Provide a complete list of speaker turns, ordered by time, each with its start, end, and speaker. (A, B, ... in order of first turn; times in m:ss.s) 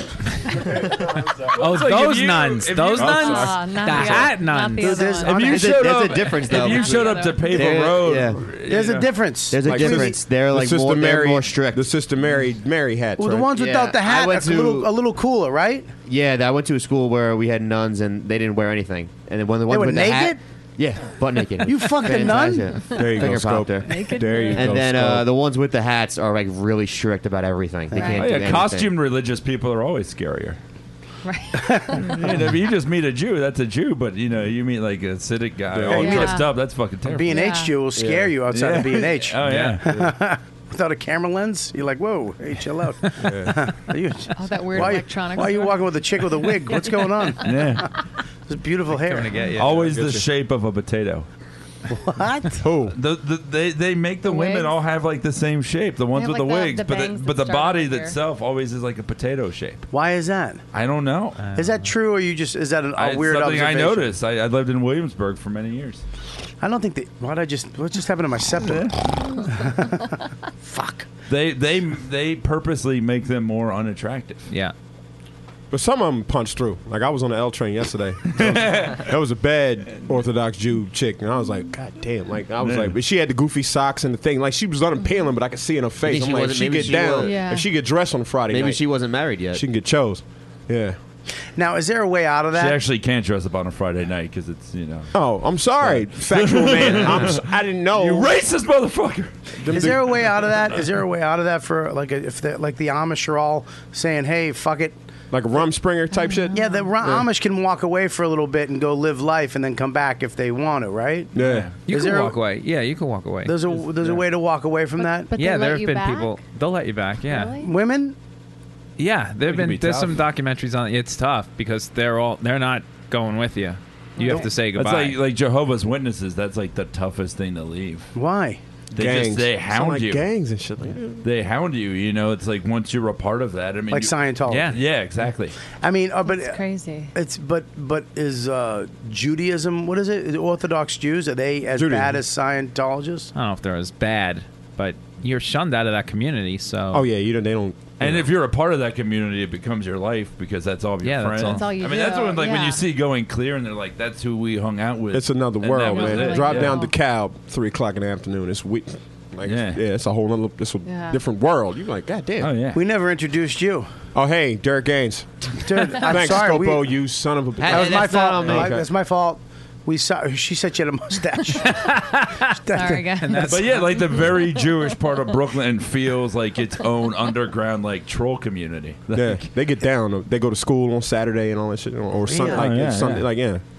0:01.1-0:04.2 A
0:01.6-0:05.2 B
0:03.0-0:05.6 C
0:04.8-0:06.0 D
0:05.2-0:09.1 A
0:05.4-0:08.4 E
0:06.2-0:07.6 C
0:08.7-0:10.1 D
0:09.5-0:11.9 E
0:09.6-0:13.5 F
0:13.2-0:15.9 D
0:13.6-0:14.9 E
0:16.1-0:28.9 E
0:19.7-0:20.4 D
0:21.6-0:22.7 D
0:23.0-0:25.3 F
0:23.8-0:24.7 C
0:27.9-0:28.3 C
0:28.2-0:30.6 A
0:31.2-0:32.2 C
0:31.6-0:32.4 D
0:32.1-0:37.4 A
0:35.7-0:36.3 F
0:35.9-0:36.4 D
0:35.9-0:36.5 C
0:37.1-0:47.9 D
0:37.3-0:37.7 C
0:38.0-0:38.4 F
0:38.5-0:39.8 A
0:39.4-0:39.8 B
0:39.8-0:40.1 F
0:43.2-0:43.6 F
0:44.4-0:45.8 C
0:46.4-0:47.6 C
0:47.4-0:47.9 A
0:48.5-0:49.5 D
0:48.9-0:50.0 B
0:49.5-0:51.3 A
0:49.7-0:50.3 F
0:51.9-0:52.6 D
0:52.6-0:53.0 F
0:52.9-0:59.9 A
0:54.2-0:54.8 C
0:56.2-0:58.2 C
0:59.9-1:00.6 D
1:00.7-1:01.4 A
1:01.4-1:01.9 B
1:01.6-1:04.1 D
1:03.0-1:06.0 A
1:06.6-1:11.1 D
1:08.6-1:09.1 A
1:11.3-1:14.5 A
1:14.5-1:14.7 B
1:15.7-1:28.8 F
1:18.3-1:19.1 A
1:22.6-1:22.9 A
1:26.1-1:27.4 E
1:27.2-1:27.7 C
1:28.5-1:29.6 E
1:29.5-1:31.0 F
1:31.6-1:32.8 D
1:32.5-1:35.1 A
1:35.1-1:38.4 F
1:35.9-1:39.8 A
1:39.6-1:40.4 F
1:39.7-1:45.0 D
1:45.3-1:47.3 F
1:46.1-1:46.9 C
1:46.5-1:51.3 D
1:51.3-1:51.7 F
1:51.4-1:51.8 A
1:51.9-1:53.8 B
1:51.9-1:52.4 D
1:53.4-1:55.3 D
1:55.0-1:56.4 C
1:55.4-1:57.6 B
1:57.3-1:57.7 C
1:57.6-1:58.2 D
1:59.0-2:05.2 B
1:59.5-2:00.2 A
2:04.2-2:08.1 A
2:08.2-2:08.6 D
2:08.9-2:11.2 F
2:09.0-2:10.3 A
2:11.2-2:15.6 A
2:13.9-2:14.8 D
2:14.5-2:14.8 B
2:15.8-2:16.6 D
2:16.3-2:17.1 C
2:17.1-2:23.3 D
2:21.7-2:22.2 F
2:23.4-2:27.1 B
2:26.9-2:28.3 F
2:28.0-2:36.8 A
2:31.0-2:31.8 B
2:31.5-2:32.8 C
2:35.1-2:42.5 F
2:35.8-2:37.0 C
2:39.4-2:39.8 A
2:40.8-2:41.2 C
2:42.4-2:42.8 A
2:42.7-2:43.9 D
2:44.1-2:48.8 F
2:45.6-2:47.0 D
2:47.6-2:48.8 E
2:47.7-2:51.9 D
2:51.7-2:52.5 B
2:52.7-2:53.5 D
2:52.7-2:53.5 C
2:53.2-2:54.2 B
2:53.4-2:59.5 A
2:59.1-3:03.6 F
3:02.4-3:02.6 D
3:02.5-3:03.3 A